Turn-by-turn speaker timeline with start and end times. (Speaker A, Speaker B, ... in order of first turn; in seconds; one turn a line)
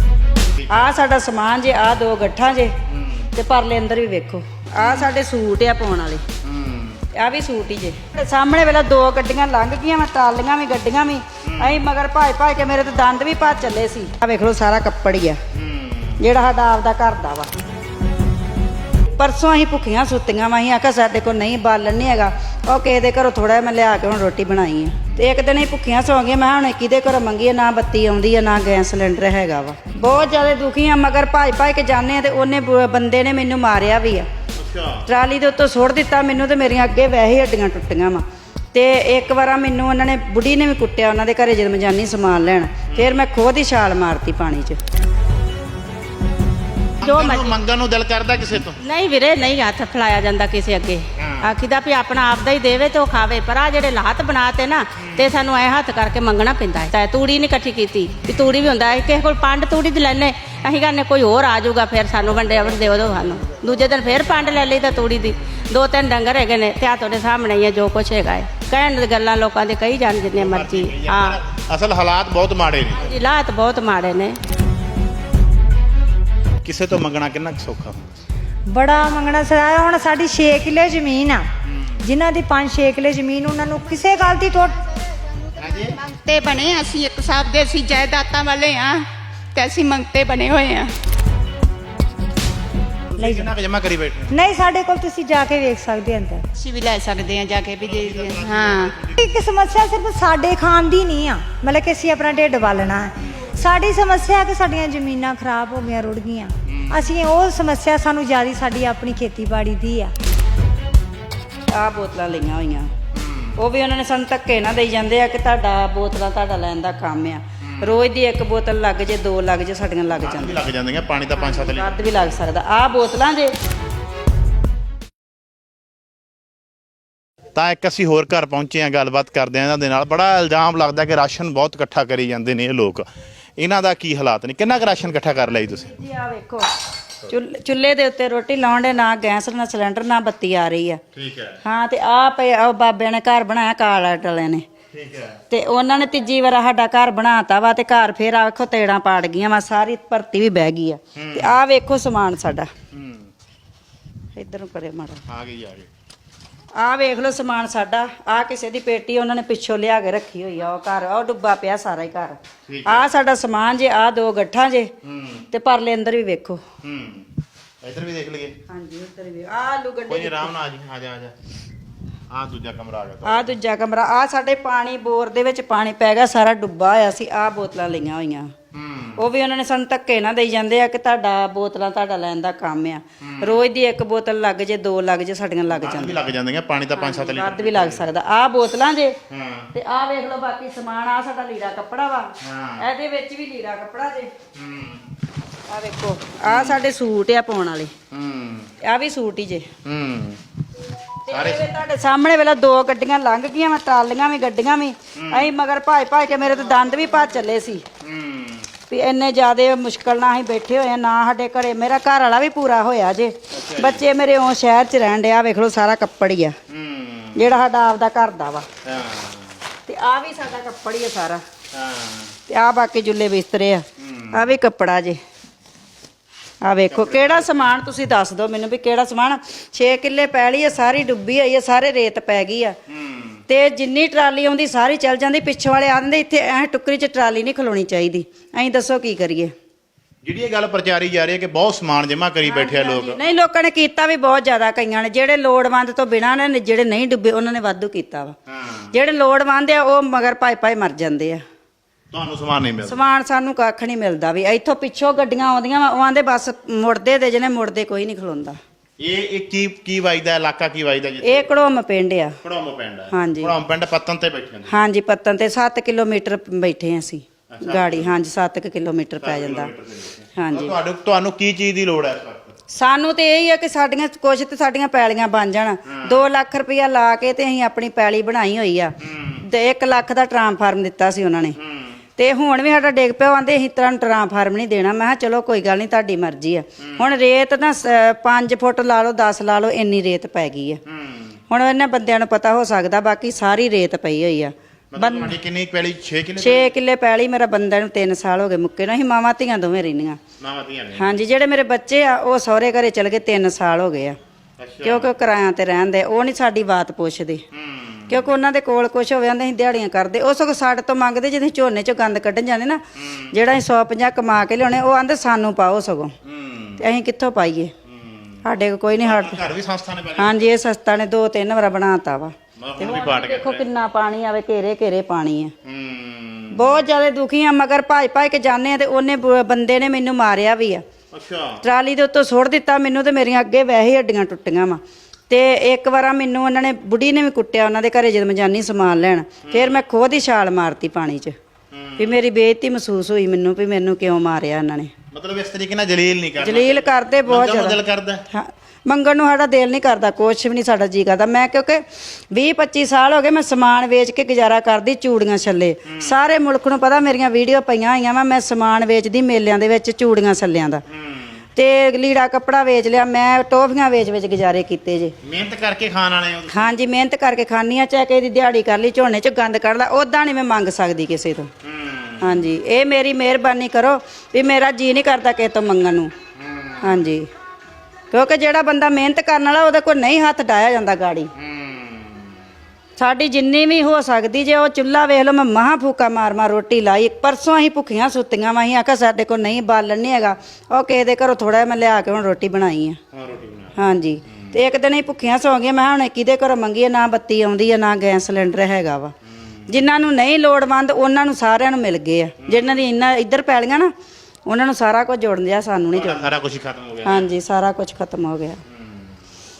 Speaker A: 0.6-1.0
Speaker B: 0.7-2.7
Speaker A: 2.9-3.3
Speaker B: 3.4-6.2
Speaker A: 4.8-5.1
Speaker A: 6.4-7.0
Speaker B: 7.2-15.4
Speaker A: 11.4-11.8
Speaker A: 15.5-16.3
Speaker B: 16.2-17.5
Speaker B: 19.2-34.3
Speaker A: 34.6-35.1
Speaker B: 35.1-38.2
Speaker B: 38.7-44.8
Speaker A: 42.9-43.2
Speaker A: 47.0-48.8
Speaker C: 47.0-47.5
Speaker C: 48.8-71.4
Speaker A: 51.2-51.5
Speaker A: 55.0-55.3
Speaker A: 70.4-73.1
Speaker C: 73.0-74.4
Speaker A: 76.6-78.1
Speaker D: 78.7-81.5
Speaker A: 81.7-82.0
Speaker D: 82.0-84.8
Speaker E: 84.3-90.9
Speaker A: 85.6-86.0
Speaker A: 93.1-94.4
Speaker D: 93.2-93.5
Speaker D: 94.3-96.4
Speaker E: 96.5-98.9
Speaker A: 97.8-99.2
Speaker D: 99.2-110.1
Speaker A: 106.7-107.1
Speaker B: 111.7-112.9
Speaker A: 113.1-113.6
Speaker B: 113.6-120.6
Speaker A: 117.6-118.0
Speaker A: 120.2-122.4
Speaker B: 121.3-123.5
Speaker A: 127.5-133.1
Speaker A: 133.6-135.9
Speaker B: 135.8-136.7
Speaker B: 137.3-141.0
Speaker A: 141.1-141.6
Speaker B: 141.7-144.7
Speaker A: 144.9-145.4
Speaker B: 145.5-152.7
Speaker A: 151.2-151.6
Speaker A: 152.9-153.3
Speaker B: 154.4-155.2
Speaker A: 155.3-155.9
Speaker B: 156.8-164.9
Speaker A: 162.7-163.1
Speaker A: 165.0-165.5
Speaker B: 165.5-166.6
Speaker A: 166.8-167.3
Speaker A: 167.8-168.5
Speaker B: 168.7-170.5
Speaker A: 170.1-171.3
Speaker A: 172.3-173.5
Speaker B: 173.2-178.5
Speaker A: 178.7-179.2
Speaker B: 179.2-186.2
Speaker A: 183.2-183.6
Speaker A: 185.7-188.2
Speaker B: 187.0-189.2
Speaker A: 189.3-189.7
Speaker B: 189.7-194.3
Speaker A: 192.4-192.8
Speaker A: 194.6-195.0
Speaker B: 195.7-197.9
Speaker A: 196.4-196.8
Speaker A: 198.1-198.7
Speaker B: 198.8-199.7
Speaker A: 199.8-200.4
Speaker A: 201.3-201.7
Speaker B: 201.3-207.8
Speaker A: 205.2-205.5
Speaker A: 208.0-208.7
Speaker B: 208.9-216.6
Speaker A: 213.5-214.0
Speaker A: 216.7-217.5
Speaker B: 217.4-218.7
Speaker A: 218.8-219.6
Speaker B: 219.9-221.4
Speaker A: 221.7-222.3
Speaker B: 222.5-225.2
Speaker A: 224.0-224.5
Speaker B: 226.6-232.8
Speaker A: 226.9-227.5
Speaker A: 232.9-233.4
Speaker B: 233.5-239.5
Speaker A: 240.2-243.2
Speaker B: 242.4-248.4
Speaker A: 248.5-248.9
Speaker B: 248.9-251.4
Speaker A: 252.1-253.1
Speaker B: 252.8-258.6
Speaker A: 259.0-261.6
Speaker B: 261.2-262.4
Speaker A: 262.4-264.8
Speaker B: 263.1-263.5
Speaker B: 264.7-269.7
Speaker A: 267.5-268.2
Speaker A: 269.2-272.6
Speaker B: 270.4-270.8
Speaker B: 272.7-281.6
Speaker A: 275.9-276.3
Speaker A: 279.0-279.4
Speaker A: 281.6-282.0
Speaker B: 282.2-290.8
Speaker A: 286.8-287.1
Speaker A: 290.9-291.4
Speaker B: 291.5-295.4
Speaker A: 294.9-296.7
Speaker B: 296.4-300.2
Speaker A: 300.4-301.2
Speaker B: 301.0-304.2
Speaker A: 304.6-305.1
Speaker B: 304.8-307.4
Speaker A: 307.5-308.3
Speaker B: 308.1-316.1
Speaker A: 313.0-313.3
Speaker A: 316.2-316.9
Speaker B: 316.8-317.7
Speaker A: 317.9-318.4
Speaker B: 318.4-319.4
Speaker A: 319.0-320.5
Speaker B: 320.2-325.5
Speaker A: 322.6-323.6
Speaker A: 325.6-326.9
Speaker B: 326.5-330.8
Speaker A: 331.1-331.6
Speaker B: 331.6-341.4
Speaker A: 339.5-339.8
Speaker A: 341.7-342.2
Speaker B: 342.0-344.9
Speaker A: 345.1-348.2
Speaker B: 346.4-347.8
Speaker B: 348.3-351.8
Speaker B: 352.3-360.8
Speaker A: 360.9-361.4
Speaker B: 361.6-365.1
Speaker A: 365.2-366.7
Speaker B: 366.5-371.5
Speaker A: 371.6-372.5
Speaker B: 372.2-376.1
Speaker A: 376.4-377.1
Speaker B: 376.8-377.3
Speaker B: 378.1-381.3
Speaker A: 381.4-382.3
Speaker B: 383.0-393.0
Speaker A: 393.1-394.6
Speaker B: 393.8-399.1
Speaker A: 399.2-399.9
Speaker B: 399.7-403.9
Speaker A: 402.4-402.8
Speaker B: 404.5-406.2
Speaker A: 405.9-407.3
Speaker B: 407.1-408.6
Speaker A: 408.7-409.1